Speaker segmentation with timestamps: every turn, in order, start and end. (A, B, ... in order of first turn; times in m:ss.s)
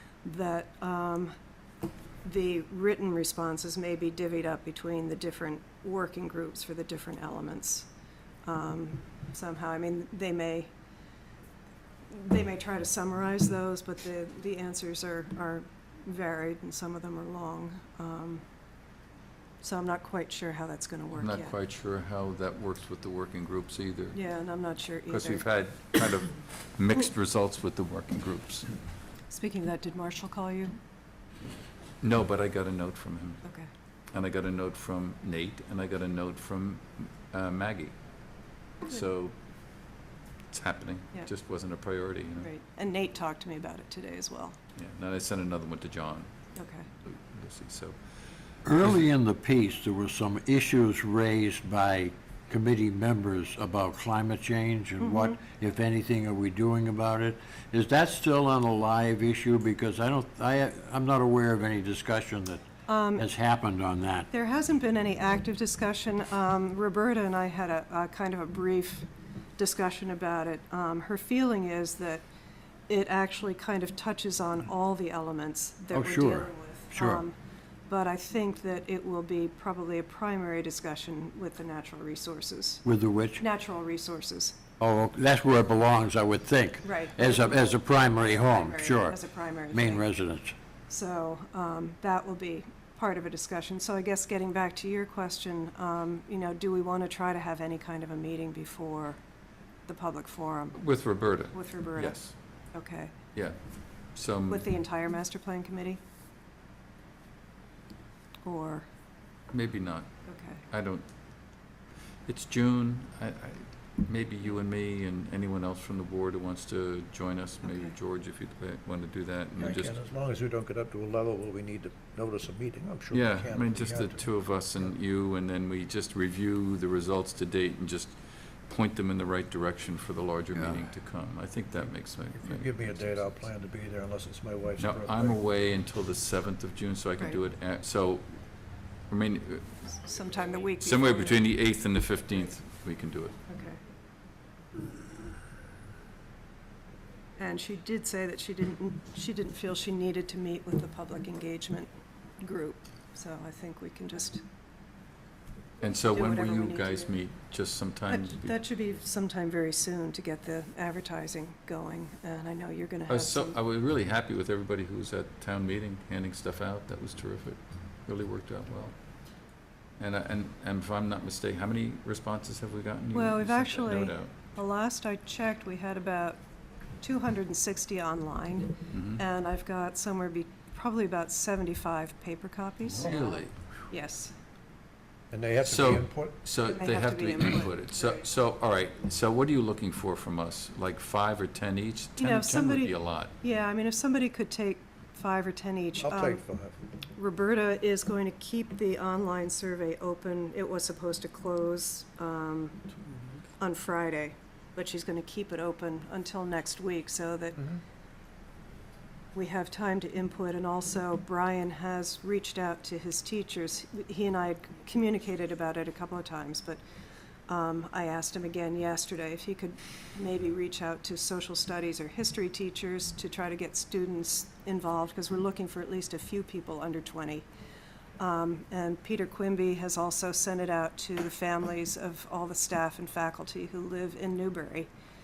0:00.2-0:01.3 A
0:02.2-0:07.9 A
0:08.4-0:10.7 A
0:12.1-0:18.4 A
0:19.6-0:21.5 A
0:21.2-0:24.2 B
0:24.1-0:25.4 A
0:25.1-0:28.7 B
0:29.3-0:30.7 A
0:32.0-0:33.4 B
0:33.4-0:33.7 A
0:34.1-0:38.0 B
0:38.8-0:39.3 B
0:40.5-0:42.5 B
0:42.4-0:44.6 A
0:44.8-0:46.3 B
0:46.6-0:46.9 A
0:47.0-0:48.0 B
0:48.6-1:04.3 C
0:55.0-0:55.4 A
1:02.9-1:03.2 A
1:04.3-1:09.1 A
1:09.6-1:12.2 A
1:12.9-1:17.3 A
1:15.9-1:17.2 C
1:17.9-1:22.8 A
1:22.8-1:23.4 C
1:23.4-1:24.6 A
1:24.8-1:30.5 C
1:26.8-1:30.0 A
1:30.9-1:39.2 A
1:39.9-1:40.8 A
1:40.8-1:42.3 B
1:41.5-1:42.2 A
1:42.7-1:43.1 A
1:44.1-1:44.6 B
1:44.5-1:46.0 A
1:48.4-1:48.9 A
1:49.5-1:50.1 B
1:50.3-1:50.6 A
1:50.7-1:51.0 B
1:52.2-2:00.0 B
1:57.6-1:57.9 A
1:59.6-2:04.3 D
2:03.1-2:13.2 B
2:12.3-2:15.4 D
2:14.8-2:18.4 B
2:19.1-2:20.0 B
2:20.0-2:21.4 A
2:20.8-2:23.3 B
2:23.5-2:23.8 A
2:27.4-2:31.9 A
2:32.4-2:34.4 A
2:35.8-2:38.6 B
2:36.1-2:37.1 A
2:38.1-2:43.6 A
2:43.1-2:48.9 B
2:50.0-2:54.3 B
2:53.1-2:56.4 A
2:57.0-3:03.4 A
2:58.9-2:59.2 B
3:03.0-3:03.5 B
3:03.9-3:04.3 A
3:05.3-3:06.4 D
3:05.6-3:13.3 B
3:06.6-3:08.3 A
3:12.2-3:16.4 A
3:16.0-3:16.8 D
3:17.1-3:22.8 A
3:23.6-3:27.8 A
3:29.3-3:36.8 A
3:37.5-3:47.4 A
3:48.2-3:54.9 A